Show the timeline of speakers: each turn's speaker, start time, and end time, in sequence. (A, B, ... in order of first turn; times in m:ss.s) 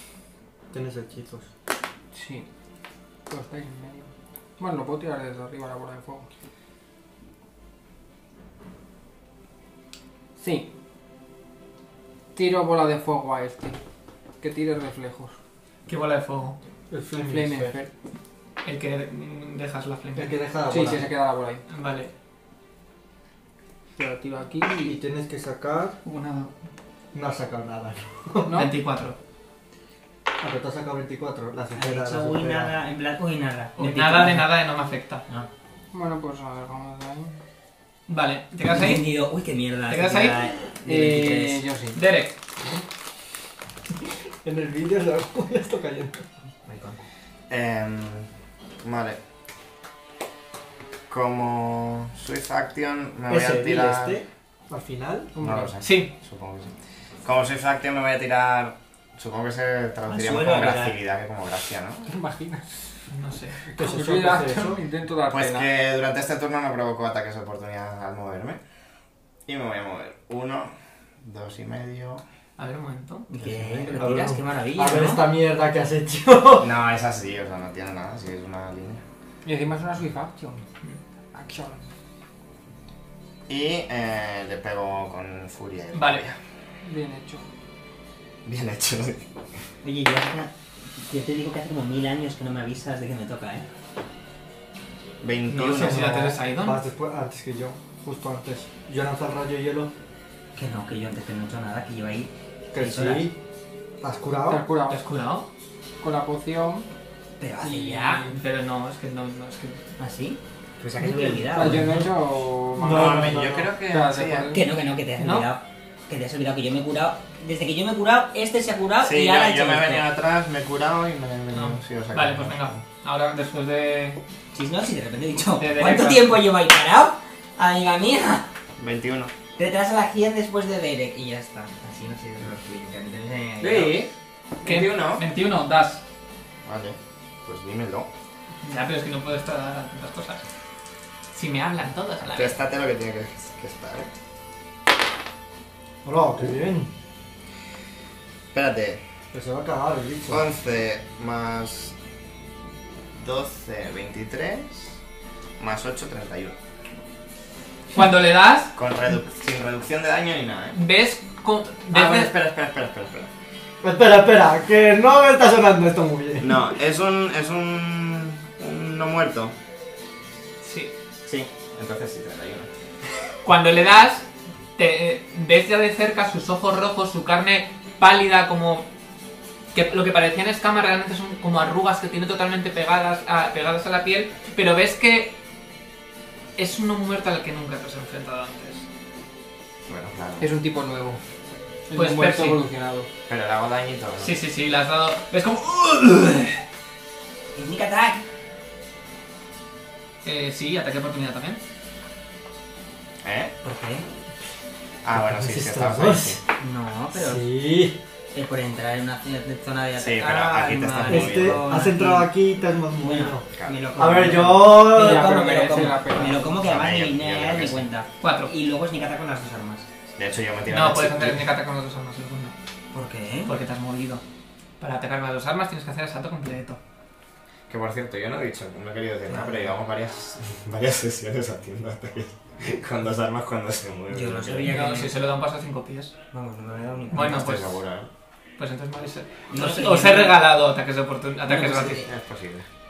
0:00.7-0:01.5 A
0:02.1-0:02.5 B
0:03.3-0:06.3 B
0:10.4-0:10.7 B
0:12.4-0:13.8 B
0:14.4-0:15.4 B
0:15.9-0:16.6 C
0:16.9-0:17.8 A
0:17.1-0:17.9 B
0:18.6-0:20.4 C
0:20.2-0:21.1 A
0:20.7-0:21.6 B
0:21.7-0:22.1 C
0:24.0-0:25.0 B
0:24.8-0:26.0 A
0:26.0-0:26.5 C
0:27.1-0:28.6 A
0:28.4-0:28.7 B
0:28.5-0:29.2 C
0:30.4-0:32.7 A
0:31.7-0:34.5 D
0:33.8-0:35.2 C
0:35.9-0:37.4 B
0:38.1-0:39.1 C
0:38.6-0:41.6 D
0:39.9-0:40.5 C
0:40.8-0:42.0 B
0:42.0-0:42.4 C
0:44.4-0:46.2 A
0:46.7-0:47.0 D
0:47.5-0:48.3 E
0:48.8-0:49.2 E
0:51.1-0:54.2 E
0:53.3-0:55.4 A
0:55.4-0:55.8 B
0:55.4-0:56.7 E
0:55.8-0:56.1 C
0:57.2-1:02.1 E
1:00.1-1:01.0 D
1:02.1-1:03.0 B
1:03.1-1:03.6 C
1:03.7-1:04.8 A
1:03.8-1:05.7 B
1:05.3-1:08.6 E
1:09.5-1:12.2 E
1:12.6-1:13.3 C
1:13.3-1:15.3 D
1:13.4-1:14.0 E
1:14.0-1:16.7 A
1:16.6-1:19.0 E
1:19.4-1:20.6 B
1:21.3-1:21.8 B
1:23.5-1:26.4 E
1:25.9-1:26.2 C
1:26.8-1:27.4 B
1:28.4-1:29.3 E
1:29.8-1:33.7 D
1:35.2-1:36.1 E
1:35.5-1:36.8 C
1:35.7-1:39.9 A
1:40.6-1:43.3 D
1:42.7-1:43.4 A
1:44.0-1:44.7 A
1:44.5-1:45.0 B
1:44.9-1:45.5 C
1:46.0-1:46.9 B
1:47.4-1:48.3 D
1:47.6-1:48.4 B
1:48.3-1:49.8 C
1:50.0-1:51.8 D
1:51.5-1:54.7 B
1:51.6-1:51.9 A
1:51.6-1:51.9 E
1:52.8-1:53.8 A
1:52.8-1:54.5 E
1:54.5-2:00.1 D
1:55.2-1:55.5 C
1:59.0-2:02.8 E
2:01.5-2:04.2 C
2:04.5-2:08.5 D
2:05.6-2:06.4 C
2:08.8-2:09.3 E
2:09.6-2:14.1 D
2:13.6-2:14.1 C
2:14.6-2:15.2 E
2:14.6-2:16.0 C
2:16.6-2:18.1 E
2:18.6-2:20.4 C
2:21.3-2:22.6 C
2:22.3-2:24.1 E
2:26.0-2:26.9 A
2:28.5-2:29.0 E
2:29.3-2:30.4 A
2:30.3-2:32.0 E
2:33.1-2:35.0 E
2:35.6-2:36.6 E
2:37.9-2:38.7 C
2:38.8-2:40.8 E
2:40.7-2:42.3 C
2:41.9-2:43.3 E
2:43.8-2:46.6 A
2:46.4-2:49.5 E
2:50.6-2:50.9 C
2:51.2-2:52.7 E
2:53.4-2:58.9 C
2:59.7-3:05.4 C
3:06.6-3:08.9 C
3:09.9-3:10.5 E
3:10.4-3:11.2 B
3:11.9-3:13.1 B
3:11.9-3:12.6 C
3:13.3-3:14.4 E
3:14.2-3:16.6 C
3:17.6-3:18.2 D
3:20.2-3:21.6 C
3:23.2-3:23.5 E
3:23.6-3:24.1 D
3:25.0-3:26.4 E
3:25.1-3:26.4 A
3:26.6-3:27.4 D
3:27.1-3:28.0 A
3:28.3-3:32.3 D
3:30.0-3:31.8 E
3:31.1-3:33.5 A
3:33.0-3:39.9 D
3:33.5-3:33.9 E
3:34.0-3:35.6 A
3:34.8-3:36.6 B
3:36.4-3:37.9 E
3:38.2-3:38.5 C
3:40.2-3:41.5 E
3:40.7-3:42.6 C
3:42.9-3:43.5 D
3:43.5-3:44.2 C
3:44.8-3:46.8 C
3:47.7-3:54.7 E
3:49.3-3:49.7 D
3:54.1-3:55.2 D
3:54.7-3:56.1 C
3:56.3-3:57.4 D
3:57.1-3:58.1 E
3:57.1-3:57.8 C
3:58.6-4:02.0 C
3:59.5-4:00.4 D
4:01.5-4:02.1 D
4:02.0-4:02.7 E